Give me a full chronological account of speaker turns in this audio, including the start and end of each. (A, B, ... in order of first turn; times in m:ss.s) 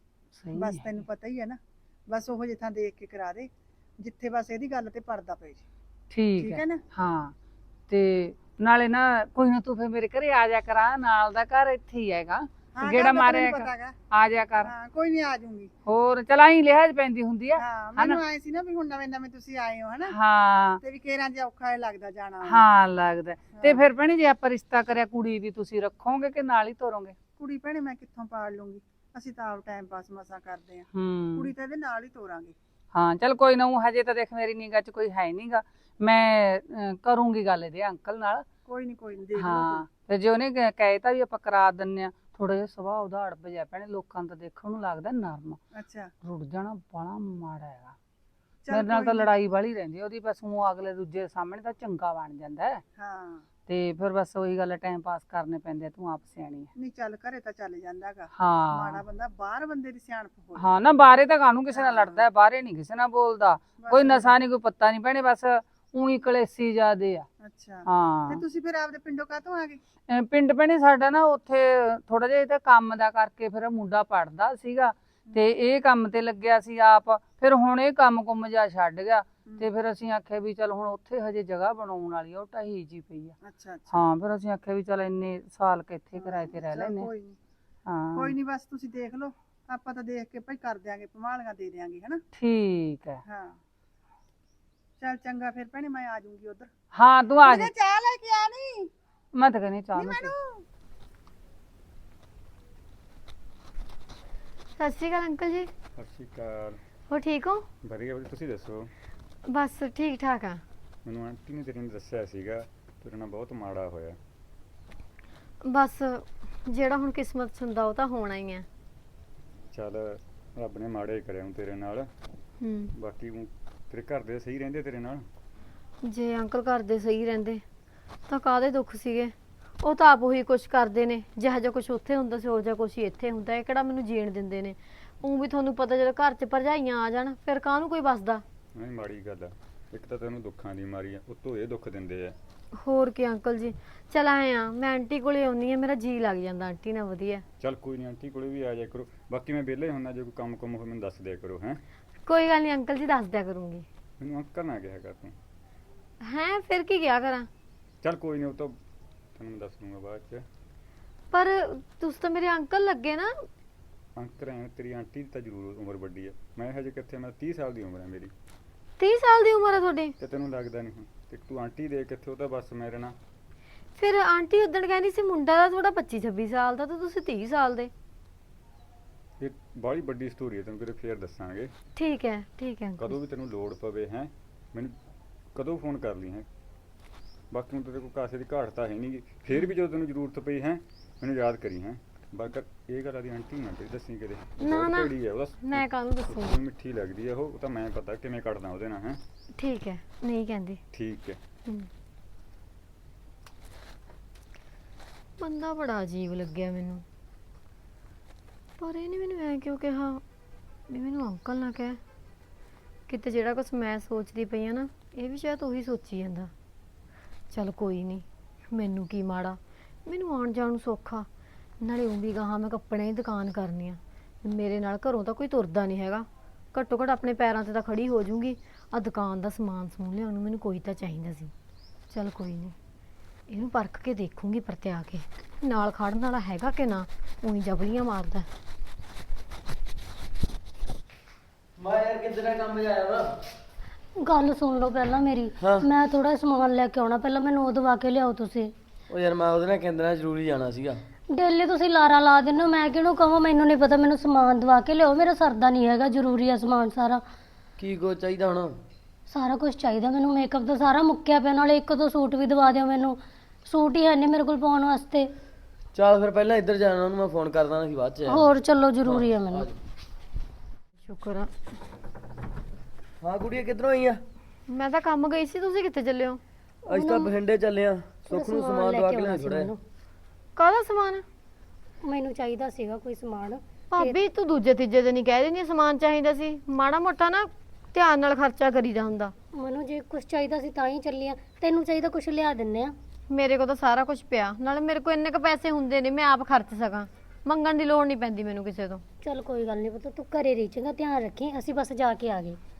0:00.3-0:01.0 A
0:00.5-0:05.6 B
0:06.1-0:07.3 A
0:06.4-0:06.8 B
0:07.9-0:14.7 A
0:12.8-0:14.0 B
0:14.6-0:15.7 B
0:15.8-0:18.2 A
0:17.6-0:20.1 B
0:20.1-0:20.8 A
0:20.8-0:22.7 B
0:22.4-0:27.2 A
0:23.5-0:23.9 B
0:27.4-0:32.6 B
0:30.9-0:31.5 A
0:32.9-0:38.5 A
0:38.6-0:39.8 B
0:39.4-0:45.6 A
0:45.7-0:46.1 B
0:46.2-0:48.0 A
0:48.6-0:49.3 B
0:48.7-0:52.8 A
0:53.0-0:53.5 B
0:53.6-0:56.7 A
0:56.8-1:00.8 B
0:58.4-0:59.0 A
1:00.6-1:07.3 A
1:01.7-1:02.2 B
1:03.8-1:04.3 B
1:07.4-1:09.8 B
1:07.8-1:08.4 A
1:10.1-1:23.4 A
1:23.4-1:24.1 B
1:23.9-1:27.1 A
1:26.2-1:27.4 B
1:27.8-1:28.3 A
1:28.2-1:32.2 B
1:32.3-1:33.2 A
1:33.3-1:33.6 B
1:35.0-1:36.7 B
1:36.9-1:37.7 A
1:37.4-1:38.9 B
1:39.3-1:40.3 A
1:39.9-1:40.6 B
1:44.8-1:45.7 C
1:46.0-1:46.8 D
1:47.1-1:47.7 C
1:47.8-1:48.9 D
1:49.4-1:50.6 C
1:51.0-1:54.2 D
1:55.6-1:58.7 C
1:59.7-2:02.1 D
2:02.6-2:02.9 C
2:03.0-2:05.2 D
2:06.0-2:07.6 C
2:08.3-2:18.4 C
2:18.7-2:22.4 D
2:22.8-2:27.4 C
2:27.6-2:31.8 D
2:32.2-2:33.8 C
2:34.2-2:35.4 D
2:36.2-2:37.5 C
2:38.0-2:38.8 D
2:39.3-2:40.4 D
2:41.3-2:43.5 C
2:44.2-2:48.3 D
2:49.0-2:50.2 C
2:50.2-2:53.2 D
2:54.0-2:57.9 C
2:59.4-3:01.7 D
3:02.0-3:03.2 C
3:03.0-3:04.9 D
3:05.5-3:06.4 D
3:07.5-3:19.2 D
3:14.6-3:16.5 C
3:19.6-3:20.8 C
3:20.9-3:21.4 D
3:25.4-3:27.0 C
3:28.8-3:30.2 C
3:30.9-3:32.0 C
3:33.1-3:36.5 C
3:37.5-3:41.3 C
3:41.8-3:51.5 C
3:52.1-3:52.8 C
3:53.5-3:58.5 C
4:01.8-4:03.3 E
4:04.2-4:08.7 F
4:05.6-4:05.9 E
4:09.1-4:11.0 E
4:11.3-4:17.2 F
4:17.8-4:18.7 E
4:19.3-4:25.3 F
4:25.9-4:28.5 E
4:28.3-4:29.7 F
4:29.0-4:29.7 E
4:31.0-4:31.5 C
4:33.2-4:34.2 E
4:34.7-4:36.4 C
4:36.9-4:37.3 F
4:36.9-4:39.7 E
4:38.2-4:39.8 F
4:40.6-4:41.2 C
4:42.0-4:44.2 F
4:43.9-4:49.3 C
4:49.5-4:53.0 F
4:53.3-4:59.0 C
4:59.2-5:02.6 F